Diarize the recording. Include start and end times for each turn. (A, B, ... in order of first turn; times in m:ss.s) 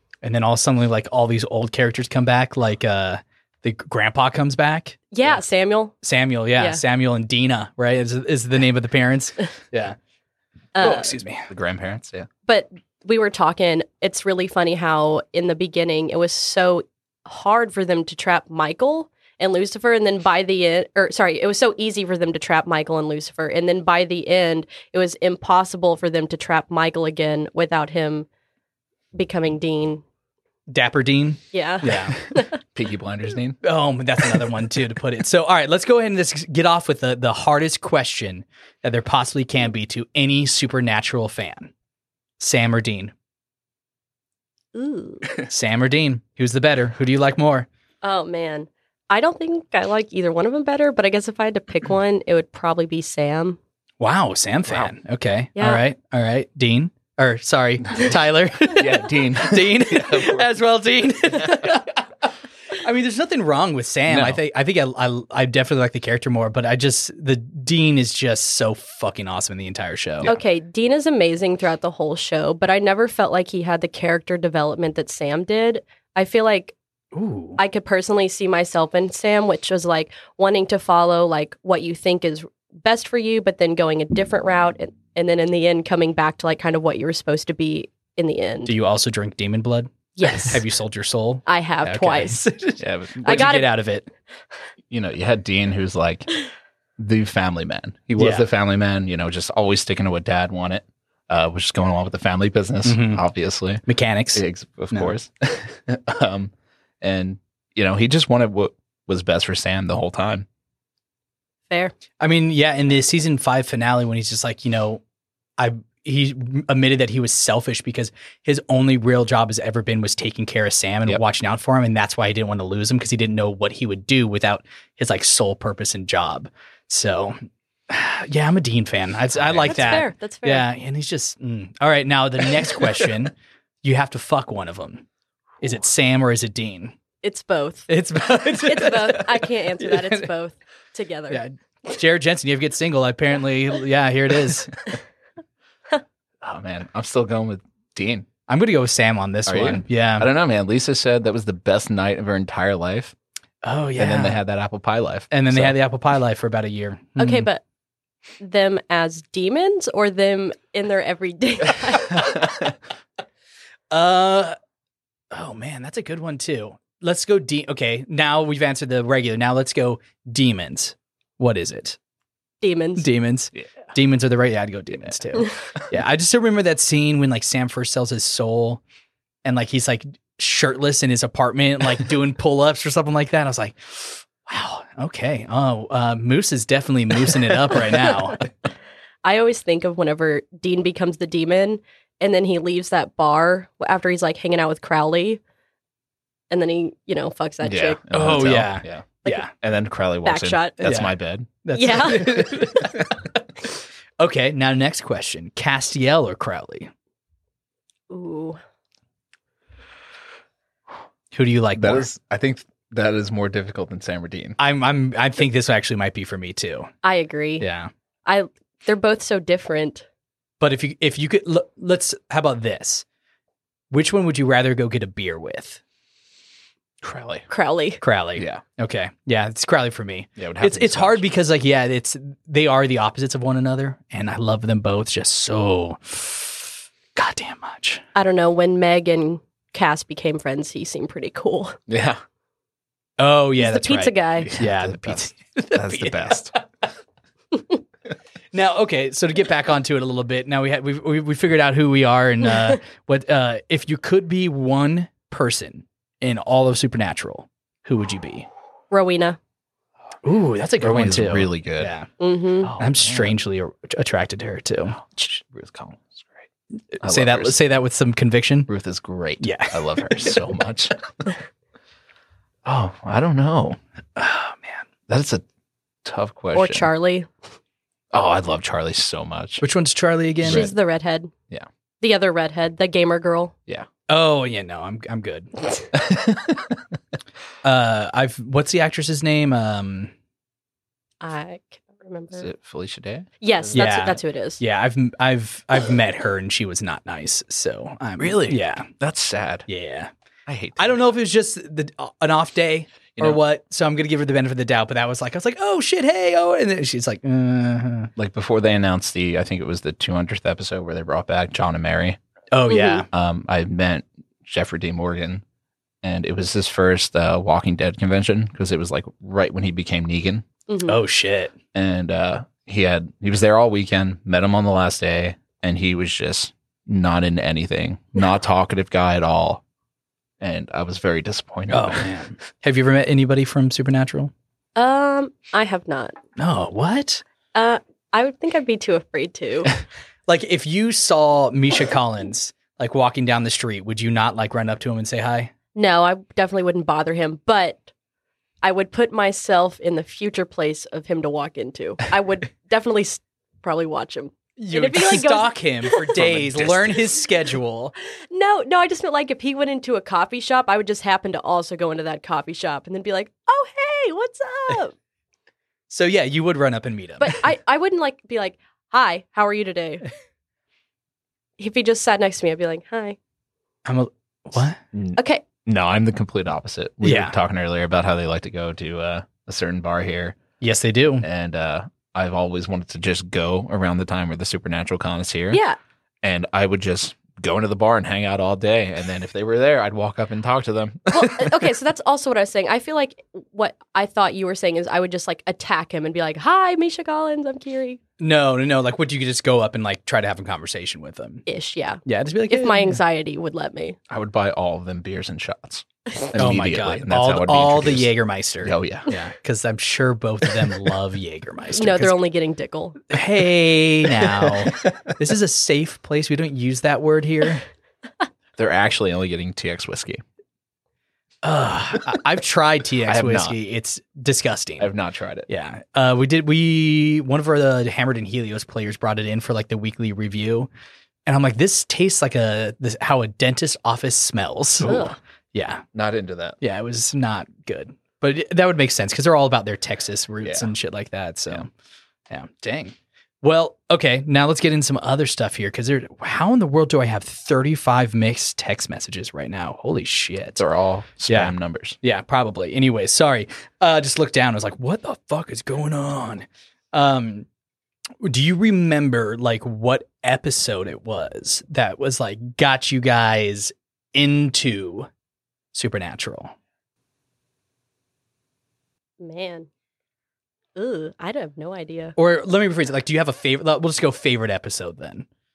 0:00.2-0:05.1 A
0:05.1-0:06.0 B
0:06.0-0:10.0 A
0:06.6-0:06.8 B
0:10.8-0:11.1 B
0:10.8-0:11.5 A
0:11.5-0:12.3 C
0:12.5-0:28.3 B
0:29.1-0:30.0 B
0:30.7-0:32.2 A
0:31.5-0:32.6 B
0:32.6-0:33.6 C
0:33.6-0:41.7 A
0:42.4-0:43.1 A
0:44.7-0:45.3 B
0:45.4-0:47.7 A
0:48.0-0:53.6 B
0:54.0-1:02.0 A
0:55.6-0:55.8 B
0:58.6-1:00.5 C
1:01.3-1:01.8 C
1:02.7-1:10.3 A
1:04.1-1:04.4 C
1:10.2-1:16.8 B
1:17.1-1:17.6 A
1:17.6-1:28.7 B
1:28.7-1:34.1 A
1:30.2-1:30.6 B
1:31.5-1:32.4 B
1:32.8-1:33.4 C
1:33.2-1:33.7 B
1:34.9-1:36.3 C
1:37.0-1:50.5 C
1:38.2-1:38.5 A
1:42.8-1:43.2 A
1:43.9-1:45.1 A
1:52.2-1:55.0 A
1:55.6-2:07.4 A
2:07.9-2:15.0 A
2:09.4-2:10.0 C
2:09.6-2:10.7 B
2:15.6-2:17.0 A
2:17.2-2:17.9 B
2:17.9-2:20.3 A
2:18.5-2:21.4 B
2:21.3-2:24.9 A
2:26.4-2:28.3 C
2:28.5-2:30.3 A
2:29.5-2:33.2 C
2:33.6-2:34.4 A
2:34.0-2:35.8 C
2:35.3-2:37.5 A
2:37.2-2:37.6 B
2:38.4-2:42.3 B
2:43.9-2:44.6 A
2:45.3-2:52.0 A
2:52.6-2:53.0 B
2:53.0-2:58.8 A
2:59.4-3:08.4 A
3:09.2-3:15.4 B
3:16.5-3:18.0 B
3:17.6-3:21.5 C
3:18.1-3:19.5 A
3:20.2-3:20.8 B
3:20.8-3:21.1 A
3:21.6-3:23.7 A
3:21.7-3:22.8 B
3:24.2-3:26.9 A
3:28.1-3:28.6 B
3:31.3-3:32.1 A
3:31.8-3:34.6 C
3:34.6-3:36.9 A
3:37.0-3:37.7 B
3:37.6-3:37.9 A
3:38.2-3:40.0 B
3:40.6-3:43.0 A
3:43.9-3:45.8 A
3:47.0-3:47.5 C
3:47.5-3:48.0 B
3:48.0-3:56.6 A
3:48.4-3:48.6 C
3:50.4-3:51.2 C
3:57.2-3:58.0 A
3:58.2-4:01.8 B
4:01.9-4:02.2 C
4:03.2-4:06.6 A
4:03.6-4:04.5 B
4:04.4-4:06.5 C
4:08.5-4:18.5 A
4:18.9-4:19.4 B
4:20.2-4:22.1 A
4:20.8-4:21.9 C
4:22.2-4:22.7 B
4:22.6-4:23.4 C
4:22.7-4:25.0 A
4:25.0-4:26.4 C
4:27.0-4:28.7 A
4:27.0-4:27.6 C
4:28.7-4:31.3 C
4:29.4-4:30.4 A
4:32.6-4:33.8 C
4:34.2-4:34.8 A
4:35.1-4:35.4 C
4:36.0-4:36.9 C
4:36.5-4:37.3 B
4:38.1-4:39.6 C
4:39.6-4:40.7 A
4:40.4-4:40.7 C
4:40.4-4:41.3 B
4:42.0-4:43.5 B
4:44.1-4:45.5 A
4:45.9-4:46.8 C
4:47.6-4:50.1 A
4:51.2-4:52.5 B
4:52.3-4:53.9 C
4:53.4-4:54.6 B
4:53.7-4:58.9 A
4:58.2-4:59.7 C
4:59.7-5:00.1 A
5:00.5-5:01.0 C
5:00.8-5:08.1 A
5:03.2-5:03.4 C
5:08.2-5:12.2 C
5:12.5-5:13.1 A
5:12.7-5:13.0 B
5:13.1-5:15.4 C
5:16.0-5:20.4 C
5:20.7-5:21.0 B
5:20.9-5:21.5 A
5:21.7-5:29.6 C
5:30.4-5:32.1 C
5:31.7-5:34.3 A
5:34.8-5:36.2 B
5:36.4-5:37.2 A
5:37.5-5:39.7 B
5:40.3-5:45.5 A
5:45.8-5:47.9 B
5:48.6-5:56.1 B
5:54.6-5:57.9 A
5:56.2-5:57.0 C
5:58.3-6:04.9 B
6:05.9-6:07.4 A
6:07.2-6:10.1 B
6:11.6-6:13.2 B
6:13.9-6:14.8 A
6:14.9-6:20.4 C
6:15.2-6:15.4 B
6:17.0-6:17.4 A
6:20.6-6:21.2 A
6:21.2-6:25.6 C
6:25.5-6:25.8 B
6:26.2-6:31.7 C
6:31.1-6:38.0 B
6:38.2-6:41.4 A
6:41.5-6:44.0 B
6:42.1-6:43.0 A
6:44.1-6:48.1 C
6:46.4-6:52.2 A
6:48.6-6:49.1 C
6:51.7-6:53.0 B
6:53.1-6:57.6 A
6:54.2-6:54.9 C
6:58.6-7:00.2 C
7:01.4-7:04.9 A
7:03.1-7:03.6 C
7:04.8-7:05.5 C
7:05.5-7:10.7 A
7:11.3-7:15.0 A
7:14.8-7:15.2 B
7:15.5-7:15.8 A
7:15.9-7:16.6 C
7:16.6-7:21.7 A
7:20.4-7:20.7 C
7:22.3-7:30.6 A
7:30.6-7:32.0 C
7:31.3-7:37.5 A
7:38.2-7:45.1 A
7:45.7-7:46.5 A
7:49.2-7:49.7 B
7:50.8-7:52.2 B
7:52.2-7:55.3 A